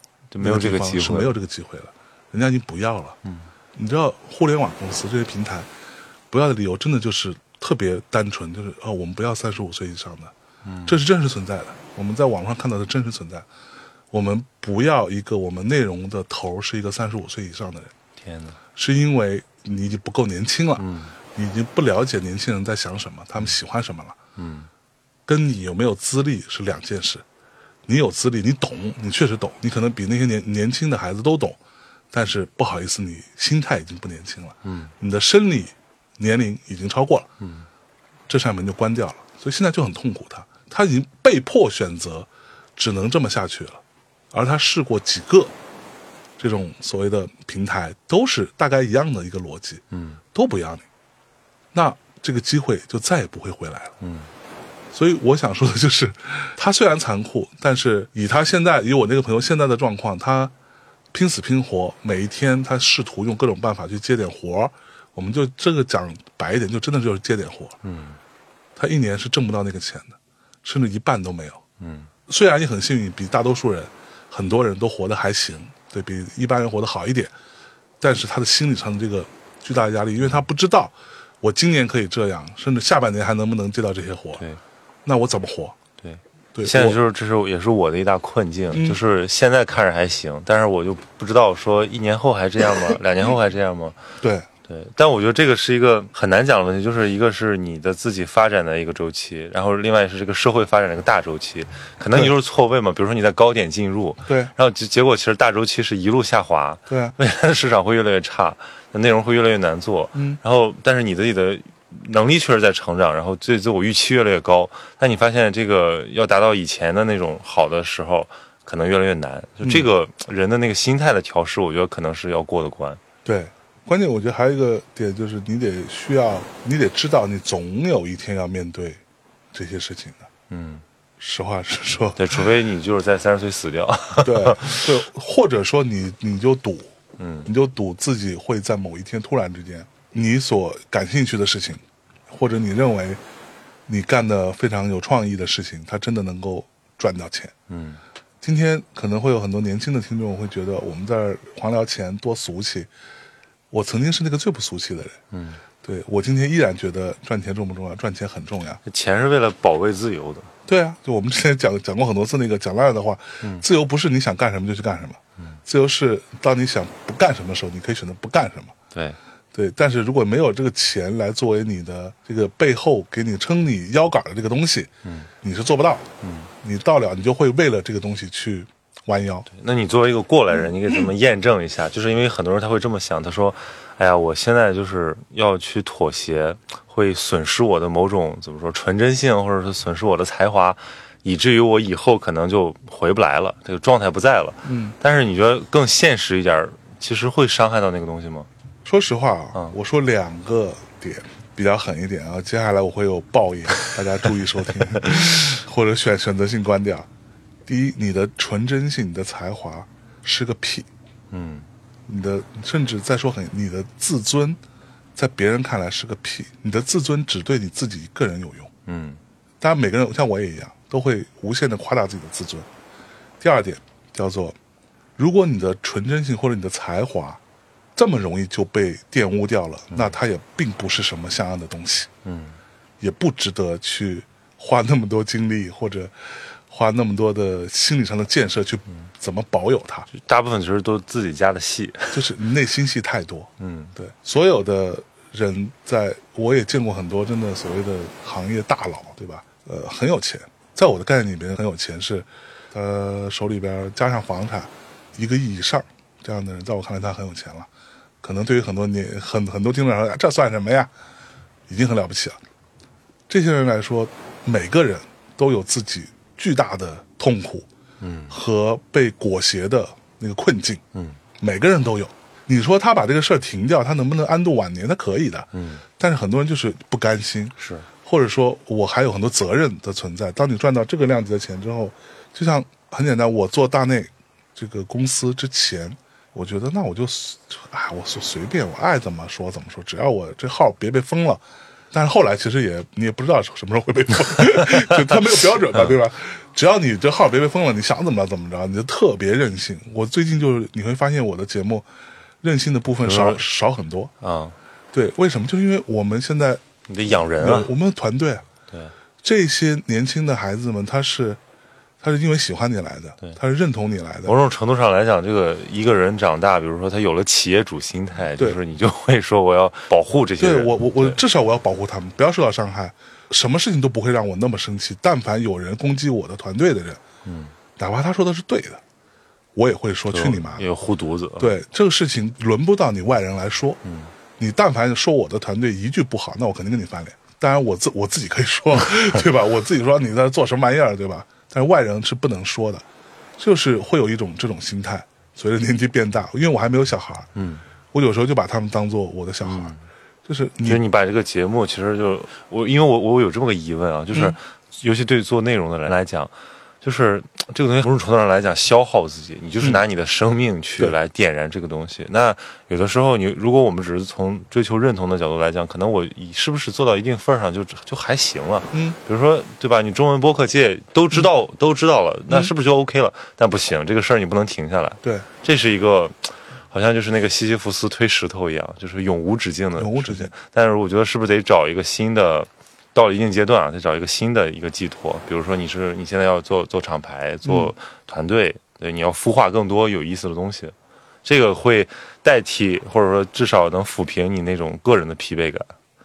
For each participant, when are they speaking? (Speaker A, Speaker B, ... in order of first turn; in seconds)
Speaker A: 0.3-1.4, 3.2-3.5, 10.7-11.0, 18.2-18.6, 20.8-21.2, 24.4-24.7, 34.6-34.9, 37.4-37.7, 49.9-50.2, 54.0-54.3, 67.8-68.2, 71.8-72.1, 86.0-94.0, 94.7-123.0, 130.5-130.8, 132.2-134.9, 137.2-137.5, 147.7-148.0, 155.3-155.6, 158.8-160.5, 175.0-175.3, 176.2-176.5, 179.5-198.5, 204.9-205.4, 211.3-211.7, 218.9-219.2, 232.2-232.6, 240.1-242.3, 243.6-243.9, 268.0-268.4, 270.9-271.2, 275.5-275.8, 277.6-277.9, 294.4-295.2, 303.0-303.5, 304.2-304.6, 306.9-307.7, 314.2-321.2, 327.2-327.5, 330.1-331.6, 333.8-334.1, 347.4-347.6, 349.4-349.8, 350.6-395.7
Speaker B: 0.4-3.2, 3.8-5.7, 6.3-10.3, 10.9-13.5, 14.1-17.9, 18.8-24.2, 25.3-27.2, 27.9-31.6, 32.1-37.3, 38.3-45.5, 46.4-49.8, 50.3-50.9, 51.7-53.9, 54.9-60.5, 61.1-67.8, 68.8-71.6, 72.3-77.3, 78.0-84.4, 85.0-85.8, 86.5-87.0, 88.7-89.0, 94.2-94.5, 104.3-104.5, 106.9-107.2, 110.2-110.4, 119.6-119.9, 123.2-129.0, 129.5-130.3, 131.2-132.4, 134.2-136.9, 137.5-143.2, 143.9-147.5, 148.4-152.9, 153.7-155.2, 155.8-158.8, 160.7-168.7, 169.5-174.9, 175.4-176.1, 176.6-179.5, 194.7-195.0, 198.8-207.1, 207.7-210.9, 212.1-214.6, 215.2-218.7, 219.6-222.7, 223.4-224.6, 225.2-227.4, 228.0-232.1, 233.0-236.1, 236.7-240.1, 242.1-257.7, 258.2-260.9, 261.7-262.4, 263.3-267.7, 268.3-270.8, 271.4-301.9, 302.4-304.1, 304.9-306.6, 307.4-308.5, 309.2-311.4, 312.0-314.4, 320.4-327.0, 327.8-328.8, 329.6-330.7, 331.4-333.8, 334.4-342.8, 343.4-347.3, 347.9-349.7, 350.3-350.8, 368.7-369.0, 379.8-380.3, 387.4-387.7